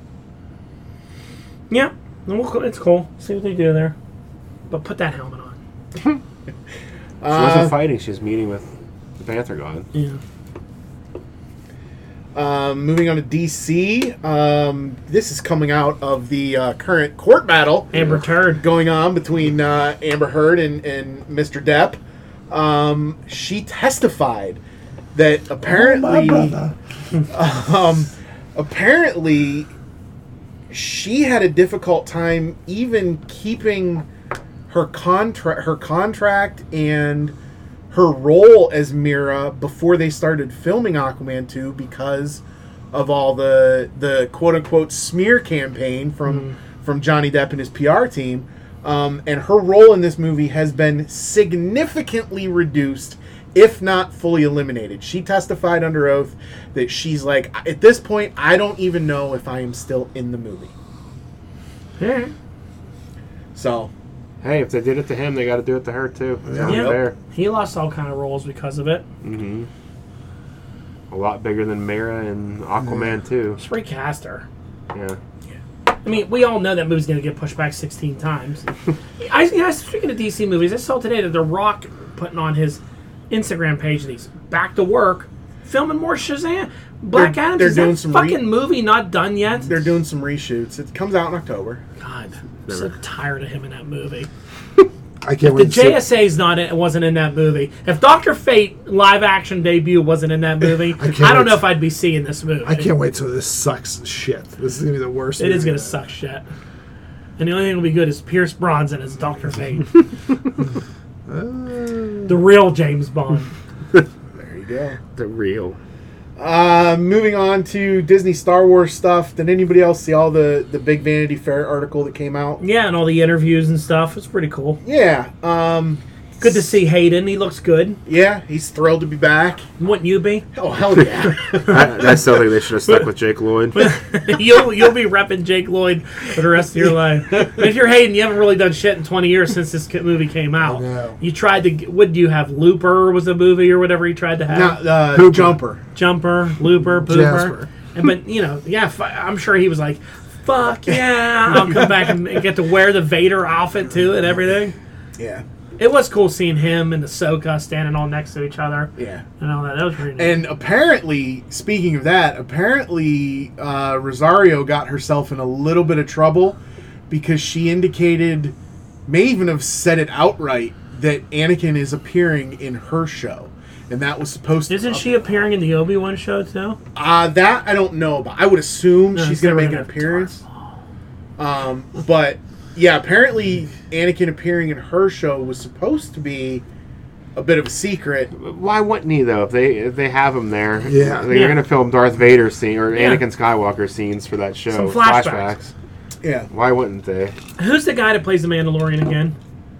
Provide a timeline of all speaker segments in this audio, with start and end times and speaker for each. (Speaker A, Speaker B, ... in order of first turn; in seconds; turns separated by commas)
Speaker A: 1.7-3.9, Speaker A: 4.7-5.6, Speaker B: 7.2-7.7, Speaker C: 7.3-9.8, Speaker A: 9.9-10.2, Speaker B: 12.3-17.9, Speaker A: 17.9-18.6, Speaker B: 18.6-22.0, Speaker B: 22.5-24.6, Speaker B: 25.1-26.6, Speaker D: 25.6-26.7, Speaker B: 27.3-29.7, Speaker B: 30.7-34.0, Speaker B: 34.7-37.3, Speaker B: 37.9-60.7, Speaker A: 46.3-46.5, Speaker A: 62.0-62.3, Speaker B: 63.5-63.9, Speaker C: 64.4-67.1, Speaker D: 66.5-66.8, Speaker B: 66.6-67.0, Speaker A: 66.6-69.0, Speaker C: 69.2-69.7, Speaker C: 71.1-73.6, Speaker A: 73.6-74.5, Speaker C: 74.9-75.2, Speaker A: 76.0-78.7, Speaker A: 79.2-89.7, Speaker B: 87.1-88.4, Speaker B: 89.6-91.8, Speaker A: 92.0-94.3, Speaker D: 95.2-96.0, Speaker A: 95.5-102.9, Speaker D: 101.0-101.7, Speaker D: 102.6-105.9, Speaker A: 105.4-106.4, Speaker A: 107.4-109.9, Speaker D: 111.3-112.3, Speaker A: 112.3-113.5, Speaker B: 114.3-115.0, Speaker C: 115.1-115.8, Speaker B: 116.4-122.6, Speaker A: 122.6-124.8, Speaker B: 124.8-126.0, Speaker A: 126.4-128.0, Speaker B: 128.0-129.7, Speaker A: 129.8-130.5, Speaker B: 130.5-131.8, Speaker C: 131.5-133.9, Speaker A: 133.7-144.8, Speaker D: 140.6-141.2, Speaker B: 144.5-145.8, Speaker D: 145.1-145.6, Speaker A: 145.9-154.7, Speaker D: 147.1-147.5, Speaker B: 155.2-155.4, Speaker A: 155.8-160.4, Speaker B: 159.0-159.2, Speaker B: 160.2-166.6, Speaker B: 167.1-168.5, Speaker B: 169.1-175.4, Speaker A: 174.7-176.8, Speaker B: 176.9-180.4, Speaker A: 179.1-180.5, Speaker B: 181.4-186.6, Speaker B: 187.3-188.3, Speaker C: 188.3-195.7, Speaker D: 190.9-191.3, Speaker A: 191.3-191.6, Speaker A: 192.9-193.2, Speaker A: 194.7-195.5, Speaker B: 196.2-196.5, Speaker C: 196.5-197.3, Speaker A: 197.6-199.3